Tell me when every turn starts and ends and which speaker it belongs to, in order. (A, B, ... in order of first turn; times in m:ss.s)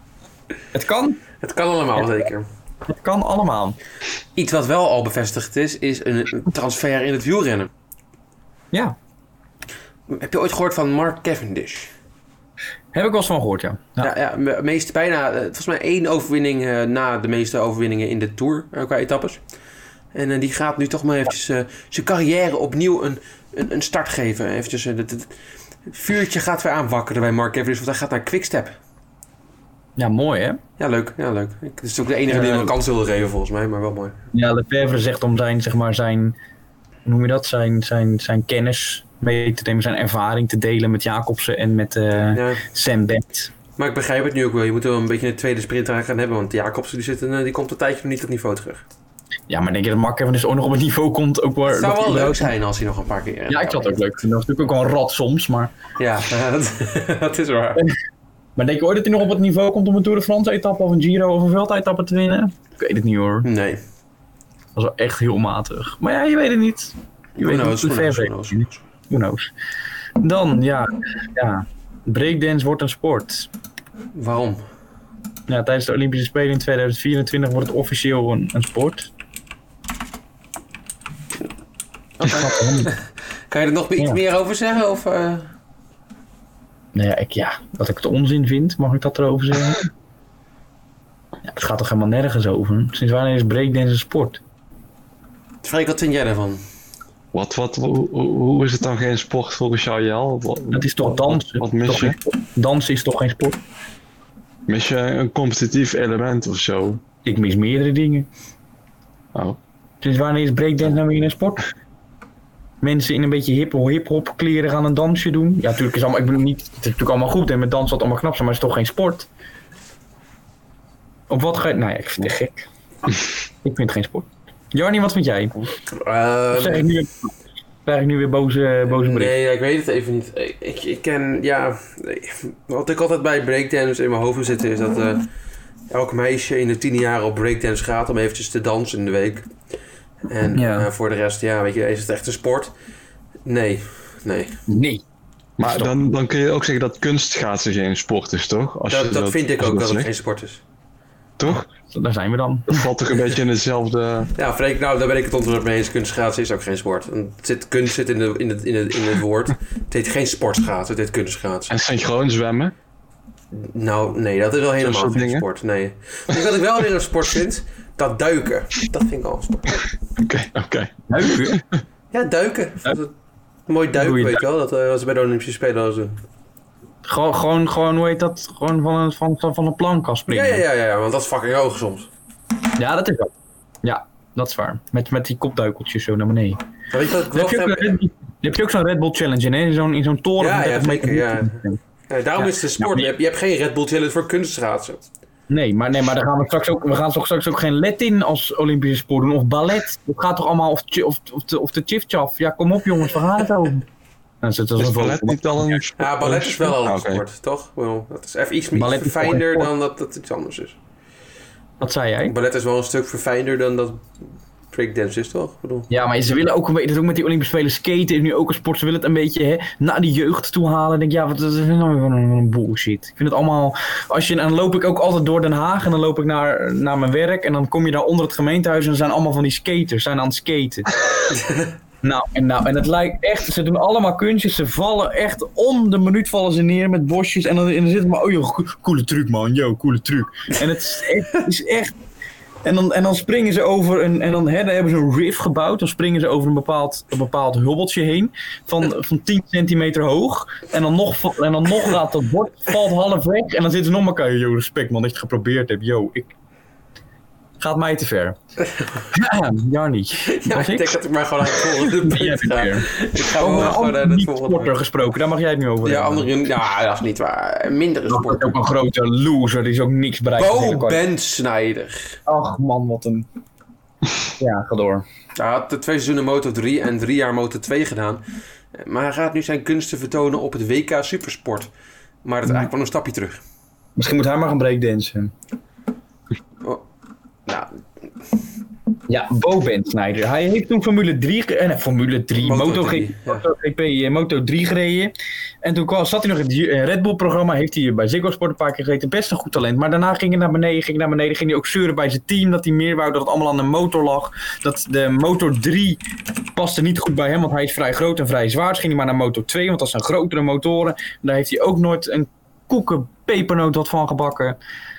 0:00.7-0:01.2 A
0:01.4-0:02.5 B
0:02.9-0:03.8 A
0:04.4-0:07.7 B
0:10.1-0:11.9 B
0:12.9-0:14.1 A
0:14.0-0:19.4 B
0:20.1-0:25.3 B
0:25.9-0:28.8 B
0:30.0-0:30.6 A
0:30.8-0:34.2 B
0:32.3-0:32.7 A
0:34.3-0:36.4 A
0:37.0-0:43.5 A
0:42.3-0:42.6 B
0:43.8-0:48.8 B
0:49.5-0:52.5 A
0:51.7-0:54.0 B
0:53.5-0:55.7 A
0:56.0-0:57.8 B
0:58.6-1:03.5 A
1:03.4-1:03.8 B
1:04.8-1:09.5 A
1:07.4-1:08.8 B
1:10.2-1:13.5 A
1:14.2-1:14.6 B
1:15.5-1:19.1 A
1:22.2-1:25.5 B
1:22.2-1:22.9 A
1:26.9-1:29.9 A
1:31.4-1:34.4 A
1:35.6-1:36.6 B
1:37.3-1:42.2 C
1:40.7-1:43.6 A
1:44.7-1:47.0 C
1:47.2-1:48.3 A
1:50.0-1:51.7 A
1:52.8-1:59.3 A
2:01.3-2:02.7 A
2:03.6-2:05.7 A
2:05.9-2:06.9 B
2:06.5-2:07.3 A
2:07.9-2:09.4 A
2:08.9-2:15.3 B
2:15.9-2:19.5 B
2:20.3-2:22.7 B
2:20.5-2:20.9 A
2:23.4-2:24.6 B
2:24.7-2:25.0 A
2:25.6-2:30.1 C
2:25.6-2:25.9 A
2:28.9-2:30.6 B
2:31.4-2:31.7 C
2:31.5-2:32.9 A
2:32.7-2:34.3 C
2:34.4-2:41.7 B
2:41.7-2:42.7 C
2:43.5-2:49.8 B
2:44.8-2:45.4 C
2:50.2-2:51.6 C
2:51.1-2:51.6 A
2:52.1-2:53.1 B
2:53.7-2:56.2 B
2:54.0-2:54.4 A
2:57.0-3:00.6 A
3:00.3-3:02.1 B
3:02.8-3:03.3 A
3:03.8-3:06.6 A
3:06.9-3:08.0 B
3:07.3-3:11.8 A
3:10.4-3:15.0 B
3:12.4-3:13.1 A
3:15.5-3:23.9 A
3:24.4-3:25.8 A
3:24.8-3:27.2 C
3:26.0-3:30.8 B
3:28.8-3:29.7 A
3:31.8-3:32.3 A
3:32.2-3:34.0 B
3:34.7-3:35.9 B
3:35.9-3:50.9 A
3:51.3-3:51.7 B
3:52.0-4:02.0 A
4:02.6-4:16.3 A
4:17.6-4:18.4 A
4:18.6-4:19.0 B
4:19.1-4:26.3 A
4:20.3-4:24.7 B
4:25.8-4:28.6 B
4:28.1-4:31.0 A
4:30.4-4:32.2 B
4:32.3-4:33.3 A
4:34.4-4:35.0 A
4:35.4-4:38.2 B
4:38.7-4:41.7 B
4:42.2-4:43.4 B
4:44.0-4:45.3 A
4:47.5-4:47.8 B
4:49.1-5:06.0 A
4:52.4-4:53.4 B
5:06.6-5:14.6 A